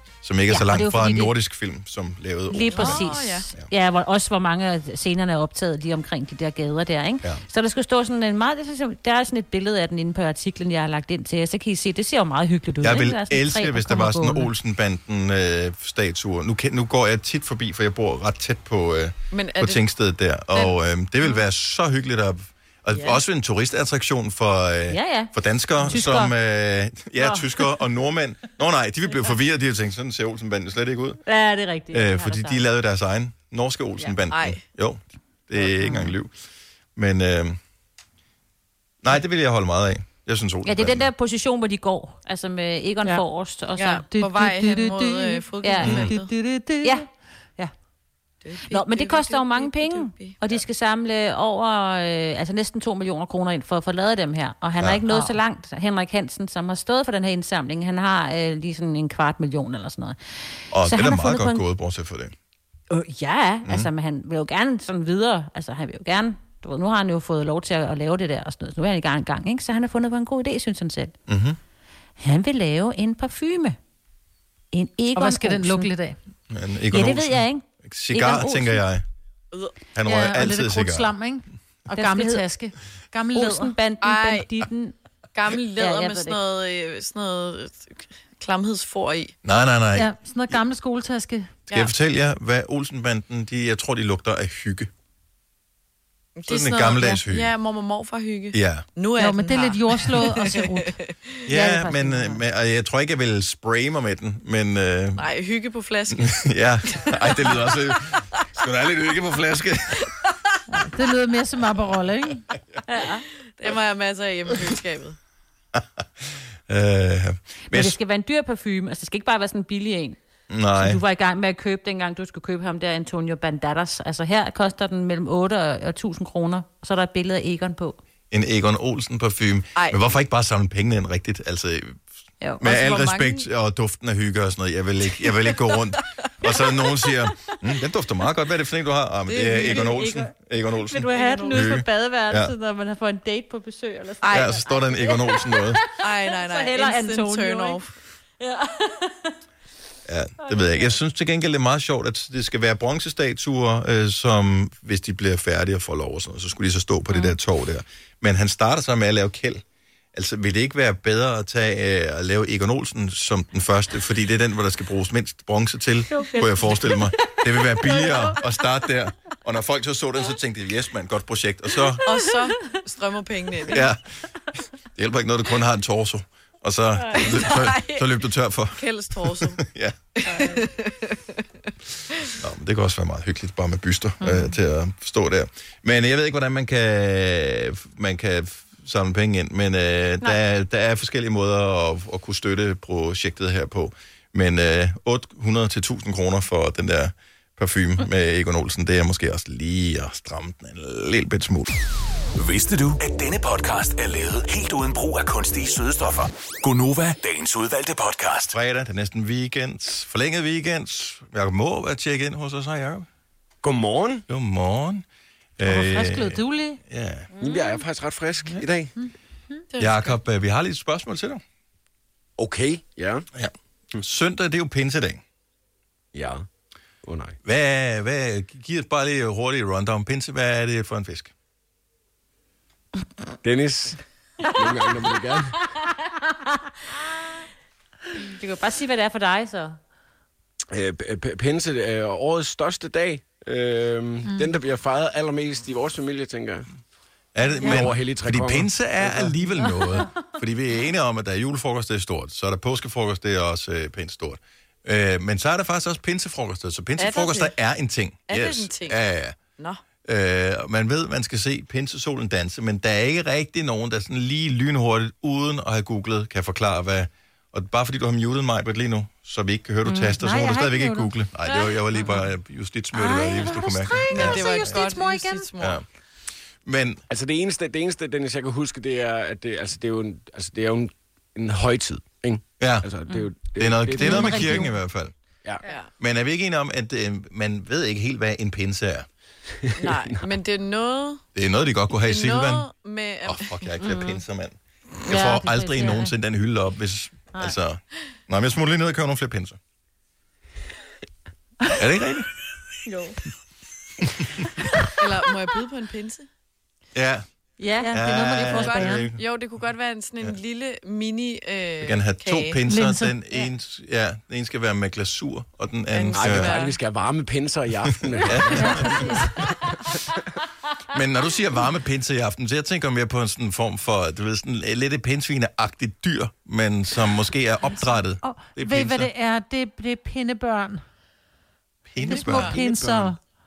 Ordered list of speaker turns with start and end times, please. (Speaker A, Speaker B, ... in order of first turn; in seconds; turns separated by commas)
Speaker A: 0.2-3.7, Speaker B: 0.5-1.3, Speaker B: 2.5-14.5, Speaker C: 2.7-3.5, Speaker A: 12.8-31.2, Speaker C: 19.3-19.9, Speaker C: 20.5-20.8, Speaker C: 22.9-23.2, Speaker B: 24.9-26.3, Speaker B: 27.2-27.8, Speaker B: 31.2-32.6, Speaker A: 31.9-36.3, Speaker C: 34.0-34.6, Speaker A: 37.0-37.6, Speaker A: 39.0-41.1, Speaker B: 40.6-44.0, Speaker C: 43.8-46.3, Speaker D: 44.1-47.0, Speaker B: 45.6-46.1, Speaker A: 45.8-46.1, Speaker B: 46.8-47.7, Speaker C: 48.4-50.4, Speaker B: 48.6-61.6, Speaker A: 54.8-55.1, Speaker A: 60.7-62.3, Speaker B: 62.9-71.1, Speaker A: 63.6-63.9, Speaker A: 71.3-71.6, Speaker B: 72.2-73.8, Speaker B: 74.7-75.9, Speaker D: 75.1-76.2, Speaker A: 76.5-79.0, Speaker B: 76.9-78.8, Speaker A: 79.9-81.1, Speaker D: 80.0-83.7, Speaker B: 81.9-82.4, Speaker B: 83.3-84.9, Speaker C: 84.0-84.5, Speaker C: 85.3-89.3, Speaker B: 85.8-86.4, Speaker A: 89.4-90.1, Speaker D: 89.9-91.6, Speaker A: 91.7-94.9, Speaker C: 96.4-101.3, Speaker A: 96.5-97.5, Speaker A: 98.5-98.8, Speaker D: 99.2-101.0, Speaker A: 101.5-105.3, Speaker D: 101.5-102.3, Speaker C: 105.2-107.8, Speaker A: 106.1-110.1, Speaker D: 110.7-112.5, Speaker B: 112.9-113.2, Speaker C: 113.6-115.2, Speaker A: 115.7-116.0, Speaker A: 116.7-118.0, Speaker B: 117.7-120.2, Speaker A: 120.5-121.0, Speaker B: 120.7-128.0, Speaker A: 128.3-132.0, Speaker C: 129.7-130.0, Speaker A: 132.6-142.5, Speaker C: 132.6-133.5, Speaker C: 135.2-136.3, Speaker B: 139.3-147.8, Speaker C: 141.1-141.8, Speaker C: 144.2-144.6, Speaker A: 144.3-145.8, Speaker C: 146.0-147.9, Speaker B: 148.4-149.4, Speaker A: 150.1-159.6, Speaker B: 150.4-150.9, Speaker A: 160.1-172.0, Speaker B: 166.1-168.4, Speaker C: 172.0-173.9, Speaker B: 172.1-172.8, Speaker A: 173.7-174.0, Speaker A: 174.9-180.2, Speaker C: 177.1-178.2, Speaker C: 178.7-179.6, Speaker C: 180.2-181.4, Speaker B: 180.3-180.6, Speaker A: 182.3-201.7, Speaker B: 184.2-184.5, Speaker E: 202.4-208.5, Speaker A: 208.5-213.1, Speaker F: 213.6-214.2, Speaker A: 214.3-215.0, Speaker A: 215.6-217.3, Speaker D: 215.6-216.8, Speaker B: 217.4-217.8, Speaker F: 217.4-218.9, Speaker D: 219.0-219.6, Speaker C: 219.7-220.2, Speaker A: 219.8-221.4, Speaker F: 222.4-223.3, Speaker A: 223.3-225.2, Speaker F: 226.1-226.4, Speaker F: 227.0-227.4, Speaker A: 227.4-231.3, Speaker F: 233.4-234.0, Speaker B: 234.4-237.4, Speaker F: 234.5-235.6, Speaker B: 238.2-239.8, Speaker F: 240.7-246.7, Speaker A: 247.3-259.4, Speaker F: 247.6-249.3, Speaker C: 257.0-257.5, Speaker C: 258.3-259.0, Speaker C: 259.6-259.8, Speaker A: 260.1-274.8, Speaker B: 269.9-270.9, Speaker D: 270.2-271.1, Speaker B: 271.4-272.2, Speaker D: 272.9-275.5, Speaker C: 274.1-275.8, Speaker A: 275.6-275.8, Speaker A: 276.6-277.0, Speaker F: 277.1-284.7, Speaker A: 282.6-282.9, Speaker A: 283.6-285.1, Speaker B: 283.9-284.7, Speaker D: 284.0-284.5, Speaker C: 285.6-285.9, Speaker A: 286.0-289.1, Speaker F: 289.7-290.2, Speaker C: 289.8-291.2, Speaker A: 291.3-292.7, Speaker C: 292.0-293.6, Speaker A: 293.2-299.6, Speaker B: 293.8-294.2, Speaker B: 295.1-296.1, Speaker A: 301.7-302.3, Speaker C: 305.0-306.3, Speaker A: 306.9-307.2, Speaker B: 307.6-309.1, Speaker A: 307.8-309.1, Speaker C: 308.2-312.6, Speaker A: 311.8-316.7, Speaker D: 312.7-313.2, Speaker C: 315.9-316.8, Speaker F: 316.1-319.6, Speaker A: 317.9-319.6, Speaker D: 318.5-319.4, Speaker A: 320.9-329.1, Speaker D: 328.2-330.8, Speaker A: 331.9-333.1, Speaker D: 332.0-333.2, Speaker C: 332.2-332.6